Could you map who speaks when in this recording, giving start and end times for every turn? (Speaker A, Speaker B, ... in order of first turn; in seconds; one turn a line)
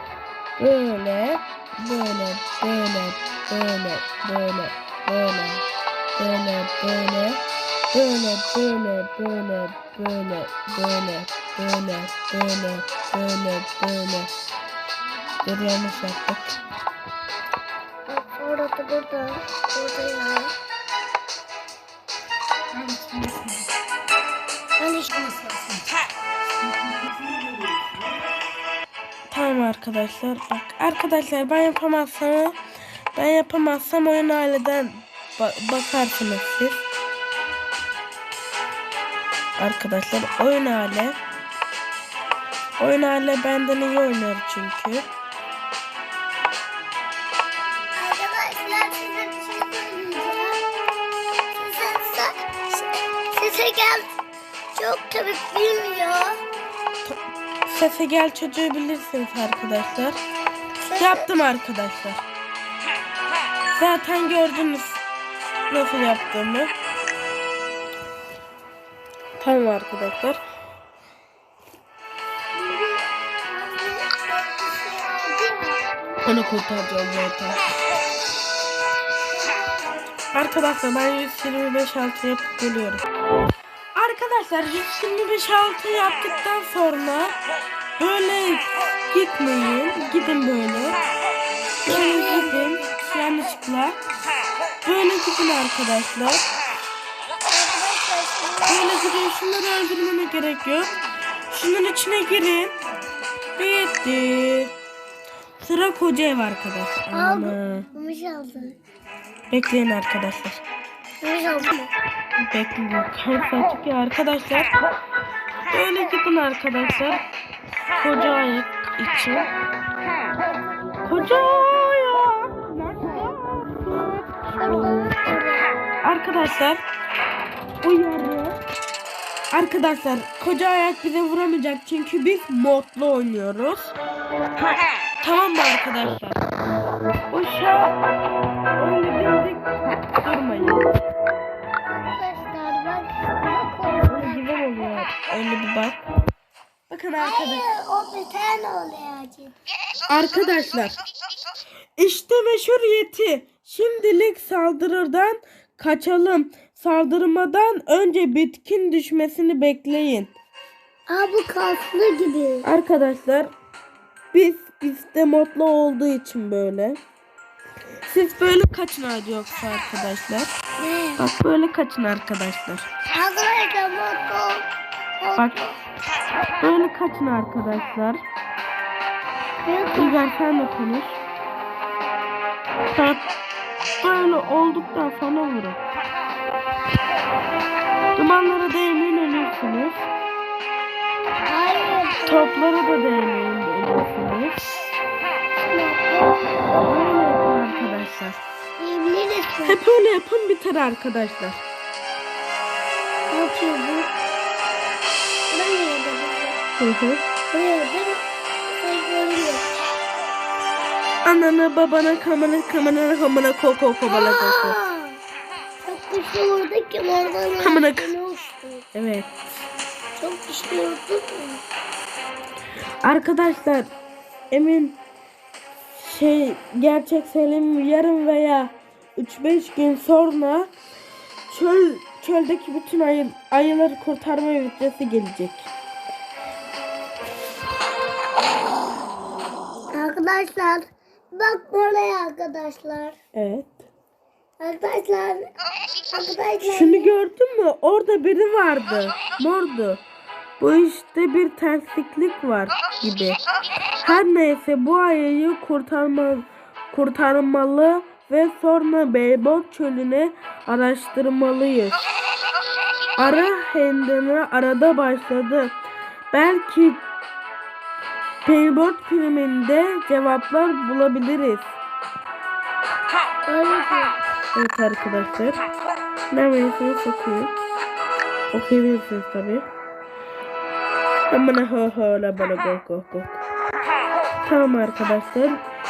Speaker A: 0.6-5.6
Speaker A: 6.2-7.4
Speaker A: 7.9-14.3
Speaker A: 15.4-16.5
Speaker B: 18.1-20.5
Speaker A: 23.0-23.4
Speaker B: 24.8-25.4
Speaker A: 29.3-32.5
Speaker A: 33.1-36.8
Speaker A: 39.6-41.2
Speaker A: 42.8-45.0
Speaker B: 48.0-50.6
Speaker B: 51.6-52.3
Speaker B: 53.3-54.0
Speaker B: 54.7-56.4
Speaker A: 57.0-60.2
Speaker B: 60.8-61.3
Speaker A: 61.0-62.2
Speaker A: 63.7-65.0
Speaker A: 65.7-66.7
Speaker A: 69.4-70.4
Speaker B: 72.5-75.9
Speaker A: 76.2-77.6
Speaker B: 79.4-80.0
Speaker A: 80.3-83.0
Speaker A: 84.0-87.4
Speaker A: 88.0-91.0
Speaker B: 91.8-92.9
Speaker A: 91.8-94.0
Speaker A: 94.8-96.5
Speaker B: 97.5-98.9
Speaker A: 98.7-100.9
Speaker A: 101.5-102.7
Speaker A: 103.6-104.7
Speaker A: 105.6-107.9
Speaker B: 107.1-108.8
Speaker A: 109.5-110.6
Speaker B: 111.2-111.9
Speaker A: 112.4-114.7
Speaker A: 115.7-117.2
Speaker A: 118.0-119.5
Speaker B: 120.5-121.4
Speaker A: 121.0-124.3
Speaker B: 124.6-125.7
Speaker A: 126.0-126.8
Speaker A: 127.8-128.6
Speaker A: 129.5-133.9
Speaker A: 135.2-136.4
Speaker A: 137.3-138.0
Speaker A: 138.8-140.9
Speaker B: 141.9-144.4
Speaker A: 144.1-146.0
Speaker A: 146.9-147.6
Speaker B: 147.2-149.5
Speaker A: 150.1-150.9
Speaker A: 152.0-160.3
Speaker B: 161.1-162.7
Speaker A: 162.6-163.5
Speaker A: 164.3-167.0
Speaker A: 168.1-170.5
Speaker B: 170.8-171.2
Speaker A: 171.2-172.9
Speaker B: 173.1-174.6
Speaker B: 175.2-175.8
Speaker A: 175.4-175.6
Speaker A: 176.6-178.2
Speaker B: 179.6-180.2
Speaker A: 179.9-181.2
Speaker A: 182.9-183.2
Speaker A: 184.0-185.8
Speaker A: 188.1-190.1
Speaker B: 191.4-192.5
Speaker A: 192.2-194.6
Speaker B: 195.7-196.6
Speaker A: 196.8-198.4
Speaker B: 198.8-199.8
Speaker A: 199.7-201.6
Speaker B: 203.3-204.1
Speaker B: 205.5-206.6
Speaker A: 206.8-207.2
Speaker B: 207.5-209.7
Speaker A: 211.2-214.8
Speaker B: 214.1-215.2
Speaker B: 215.8-218.8
Speaker A: 217.6-218.1
Speaker A: 218.9-219.3
Speaker B: 220.2-221.6
Speaker A: 223.0-223.9
Speaker A: 224.5-225.0
Speaker A: 225.9-230.7
Speaker A: 231.5-235.7
Speaker B: 239.9-243.2
Speaker A: 243.3-243.7
Speaker B: 244.6-245.5
Speaker B: 246.1-247.1
Speaker A: 246.6-250.0
Speaker A: 250.6-253.4
Speaker A: 254.0-262.0
Speaker A: 263.2-265.7
Speaker A: 266.3-267.0
Speaker A: 268.4-271.7
Speaker B: 273.4-274.1
Speaker A: 274.5-275.6
Speaker A: 276.3-277.5
Speaker A: 278.5-279.6
Speaker A: 281.3-283.4
Speaker A: 284.4-285.6